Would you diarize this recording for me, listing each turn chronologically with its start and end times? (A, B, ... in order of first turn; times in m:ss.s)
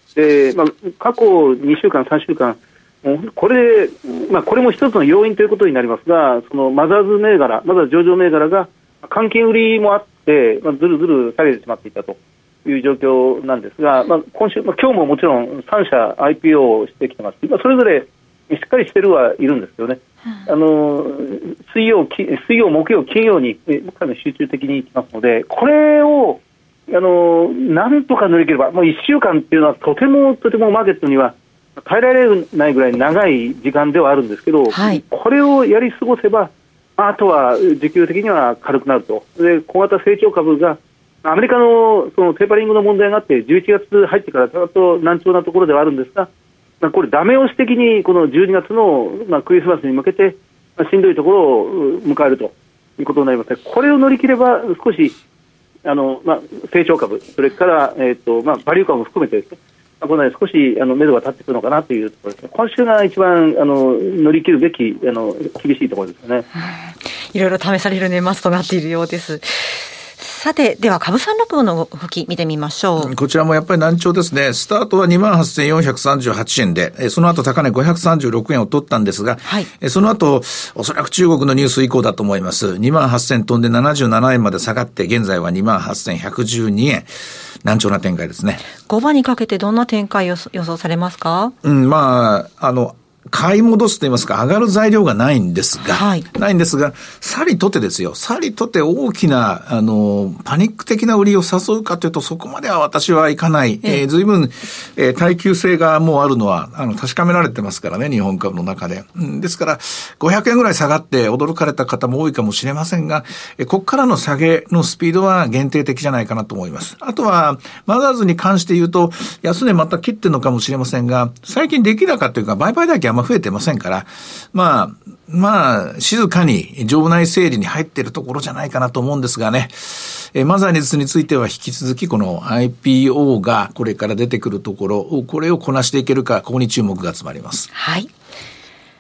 0:00.2-0:46.3 A
0:34.7-0:35.0 B
0:46.8-0:55.2 A
0:55.8-1:06.5 A
1:07.3-1:13.1 B
1:13.0-1:27.1 C
1:27.6-1:28.6 C
1:28.9-1:31.5 B
1:31.6-2:17.7 C
1:35.9-1:36.2 B
2:17.7-2:18.1 B